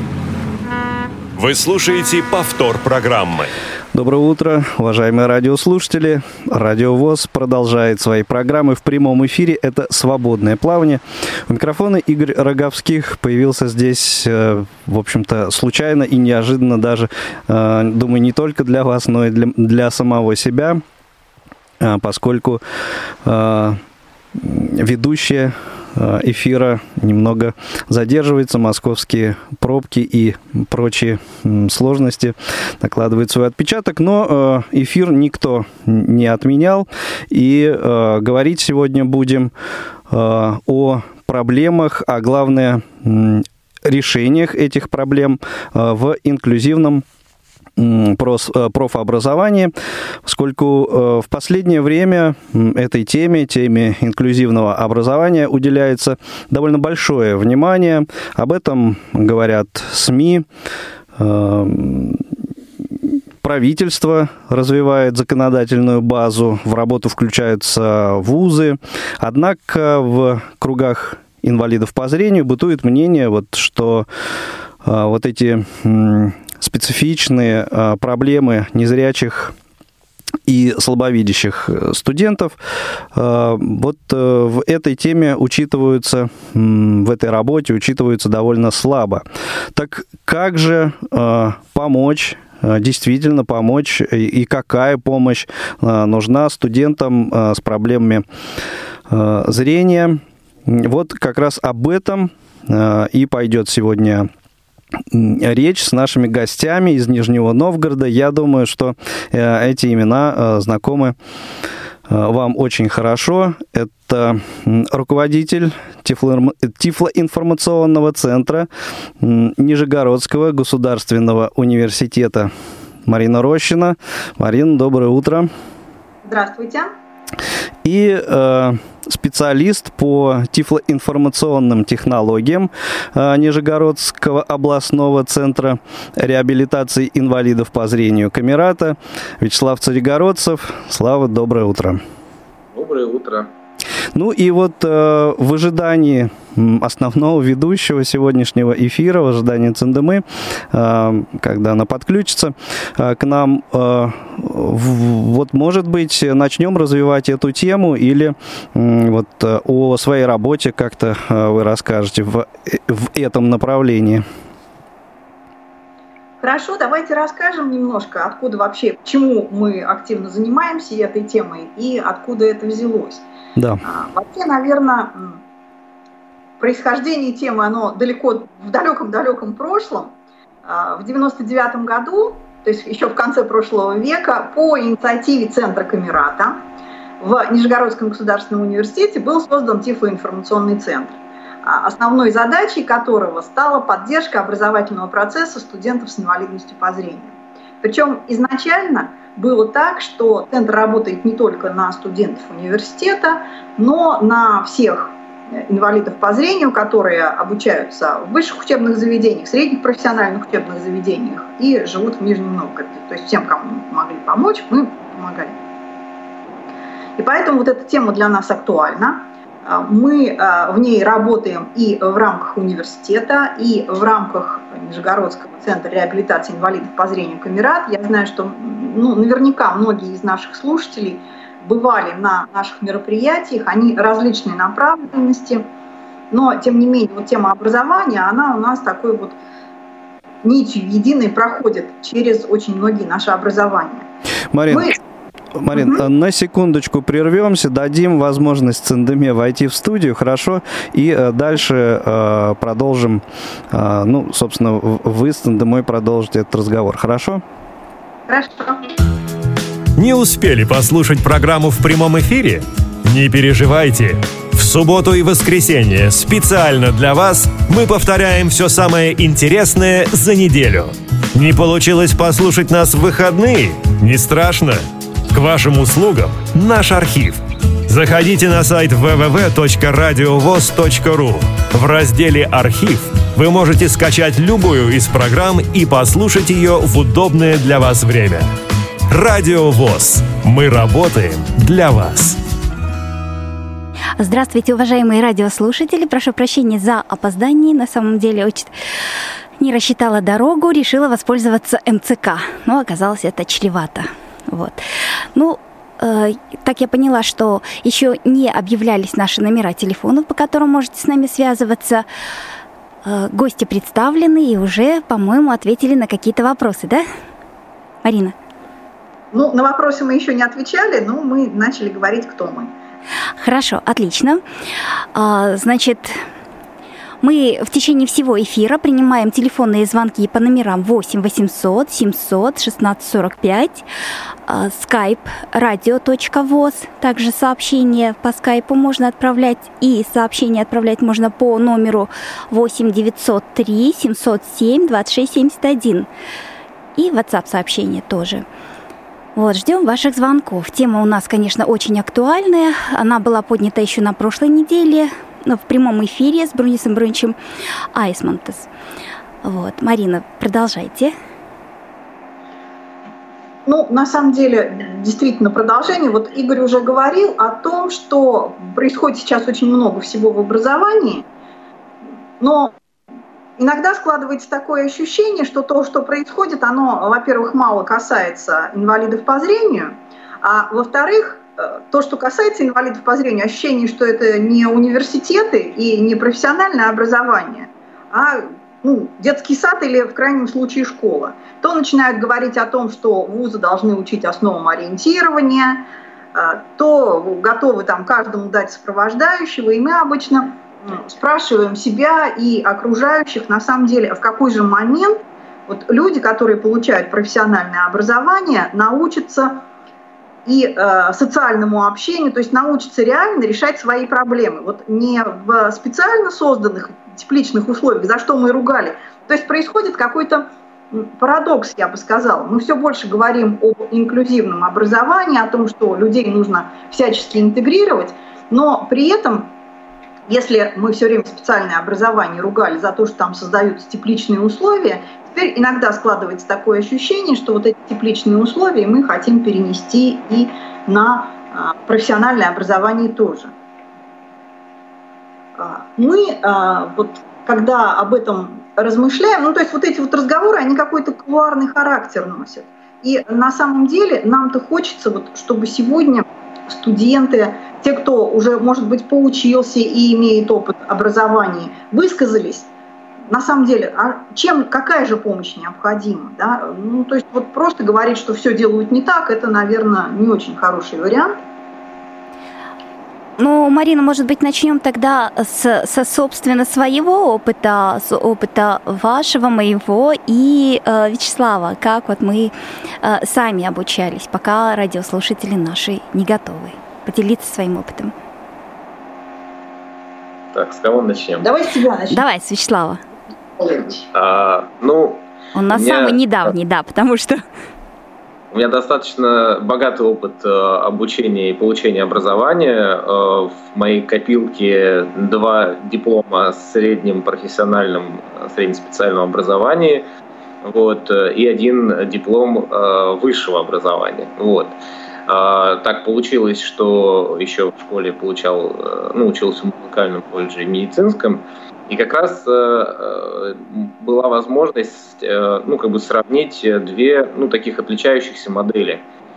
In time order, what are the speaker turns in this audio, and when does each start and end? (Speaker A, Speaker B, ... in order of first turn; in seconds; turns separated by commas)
Speaker A: 1.4-3.5, Speaker B: 3.9-20.8, Speaker B: 21.8-22.6, Speaker B: 23.2-23.8, Speaker B: 24.4-39.5, Speaker B: 40.1-47.0, Speaker B: 47.8-49.7, Speaker B: 50.2-60.5, Speaker B: 61.2-62.2, Speaker B: 63.0-74.1, Speaker B: 74.8-79.5, Speaker B: 80.5-82.6, Speaker B: 83.1-89.2, Speaker B: 89.8-98.2, Speaker B: 99.1-104.3, Speaker B: 105.1-111.2, Speaker B: 112.1-118.7, Speaker B: 119.2-122.5, Speaker B: 123.0-125.5, Speaker C: 126.2-126.9, Speaker B: 127.8-142.0, Speaker D: 142.7-143.5, Speaker B: 144.1-164.2, Speaker C: 166.4-173.2, Speaker B: 173.6-173.8, Speaker C: 173.8-175.4, Speaker C: 176.6-180.1, Speaker C: 180.7-186.7, Speaker C: 187.2-215.6, Speaker C: 217.2-235.6, Speaker C: 236.3-239.4, Speaker C: 240.4-244.1, Speaker B: 244.5-245.0, Speaker C: 244.7-245.0, Speaker B: 245.6-257.4, Speaker C: 245.8-246.1, Speaker C: 258.3-258.8, Speaker A: 260.0-274.8, Speaker A: 275.3-288.5, Speaker A: 289.1-292.4, Speaker E: 294.2-298.7, Speaker E: 299.6-304.8, Speaker E: 305.3-312.1, Speaker E: 313.1-317.1, Speaker E: 318.0-318.4, Speaker C: 319.3-322.7, Speaker E: 323.4-324.4, Speaker E: 325.1-326.2, Speaker E: 327.2-333.9, Speaker E: 334.5-346.1, Speaker E: 347.0-348.4, Speaker E: 349.4-357.4, Speaker E: 357.9-358.7, Speaker E: 359.4-361.1, Speaker C: 363.7-371.2, Speaker C: 372.4-372.7, Speaker C: 373.6-409.6, Speaker C: 410.5-429.5, Speaker C: 430.3-443.5, Speaker C: 445.6-462.7, Speaker C: 463.3-471.4, Speaker E: 473.4-488.1, Speaker D: 490.5-491.5, Speaker C: 491.4-492.2, Speaker E: 492.1-493.0, Speaker C: 493.6-494.1, Speaker D: 494.1-496.5, Speaker E: 495.6-497.4, Speaker D: 498.5-510.1, Speaker D: 510.6-514.8, Speaker D: 515.3-529.0